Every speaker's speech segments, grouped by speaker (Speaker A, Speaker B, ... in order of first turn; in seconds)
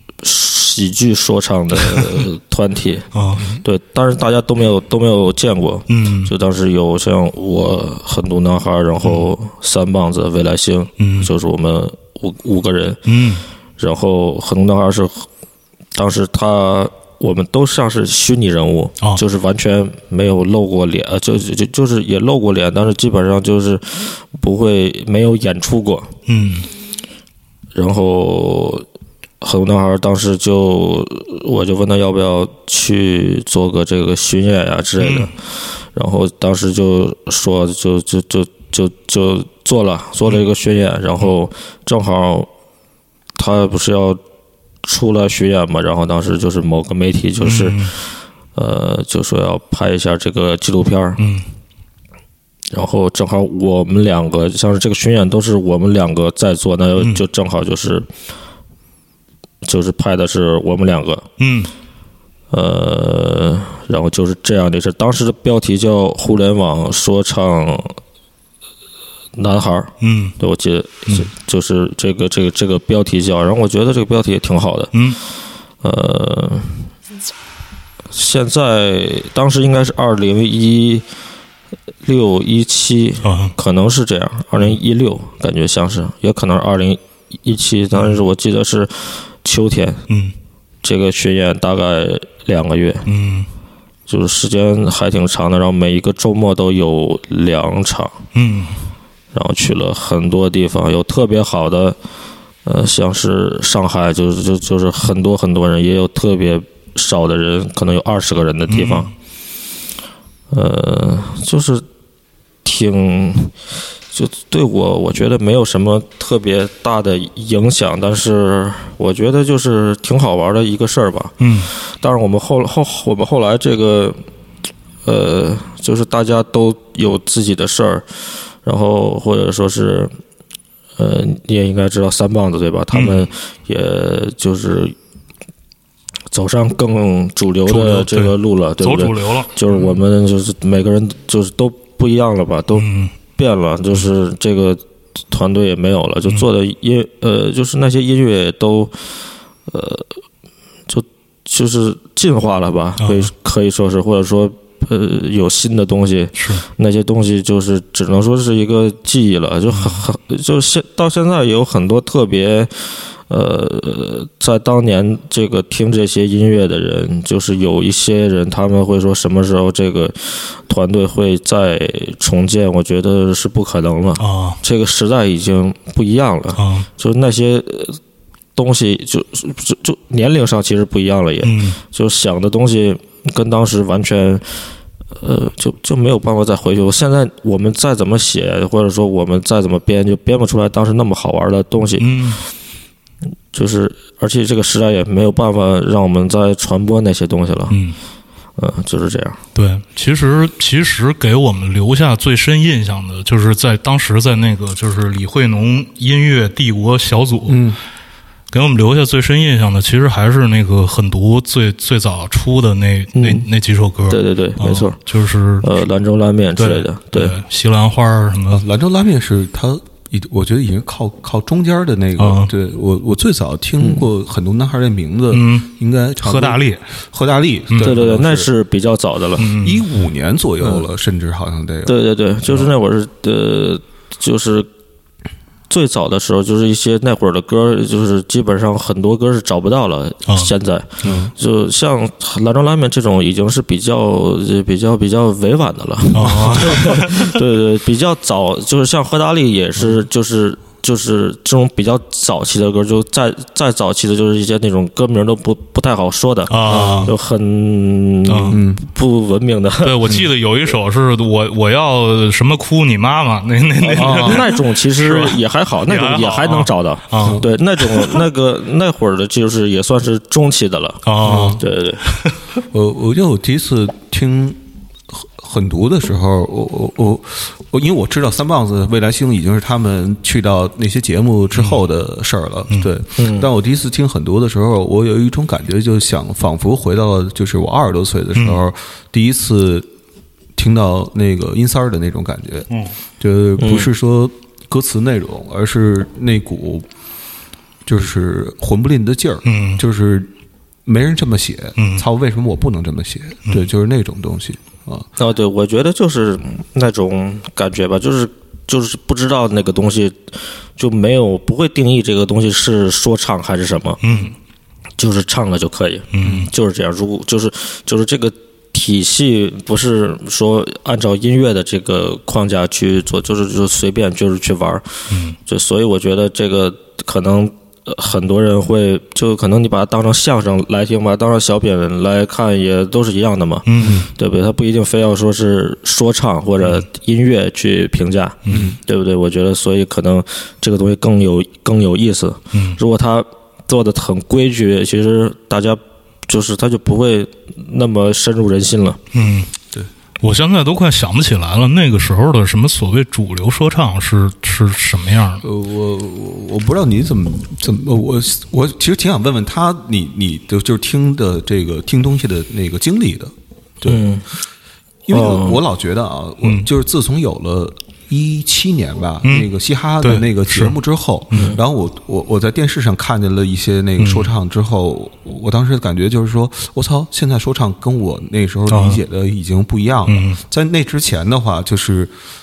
Speaker A: 0.2-3.1, 3.6-13.0, 13.8-15.3, 15.9-26.1, 27.8-28.9, 29.4-35.4, 35.9-42.5, 43.4-44.2, 44.8-47.9, 48.5-51.2, 52.7-58.1, 59.6-61.3, 62.5-68.0, 69.4-74.9, 75.8-76.8, 78.1-81.0, 82.0-90.0, 90.8-93.1, 94.1-98.2, 99.3-102.0, 102.7-109.1, 110.5-111.8, 112.6-113.5, 114.1-124.2, 125.0-128.1, 128.6-130.1, 131.0-134.9, 136.3-148.9, 149.7-150.2, 150.9-178.0, 178.6-184.6, 185.2-192.2, 193.5-197.8, 198.6-199.4, 213.2-213.5, 214.1-215.0, 215.6-217.4, 227.8-229.5, 231.9-234.7, 235.7-260.1, 263.8-272.2, 283.2-283.5, 293.6-293.9, 305.2-314.0, 315.0-349.0, 363.9-364.3, 365.1-365.6
Speaker B: 3.1-3.6, 5.9-6.3, 11.0-11.3, 13.1-13.4, 26.3-26.7, 35.0-35.3, 47.4-48.0, 51.2-51.5, 61.4-61.7, 70.0-70.4, 83.2-83.5, 90.1-90.3, 93.1-93.5, 98.3-98.8, 108.7-109.1, 121.4-121.7, 132.9-133.3, 137.7-139.9, 142.8-143.1, 153.0-153.3, 156.4-156.6, 159.7-160.0, 174.2-174.6, 176.6-176.9, 181.4-181.8, 192.0-192.4, 197.7-198.0, 199.6-207.7, 208.5-215.7, 216.6-218.6, 222.2-222.5, 225.3-225.7, 226.2-226.8, 227.7-228.0, 229.4-229.8, 246.1-247.3, 256.5-257.1, 258.3-258.6, 259.8-268.2, 271.1-271.6, 281.5-281.8, 288.4-288.6, 299.5-299.8, 301.8-302.0, 314.0-314.3, 316.1-316.5, 325.1-325.4, 333.7-334.0, 338.4-338.7, 342.5-342.8, 349.1-349.5, 350.2-355.4, 366.4-366.7, 369.2-369.5, 370.0-370.8, 371.3-371.6, 374.0-374.3, 378.7-379.0, 380.1-380.4
Speaker C: 207.5-207.8, 218.5-228.5, 229.6-231.9, 241.0-241.3, 256.7-257.1, 258.5-258.8, 264.0-264.5, 271.2-271.6, 272.7-274.6, 275.1-289.9, 290.6-296.9, 297.9-300.3, 300.9-305.1, 333.8-334.1, 338.5-338.8, 355.4-364.0, 365.1-382.1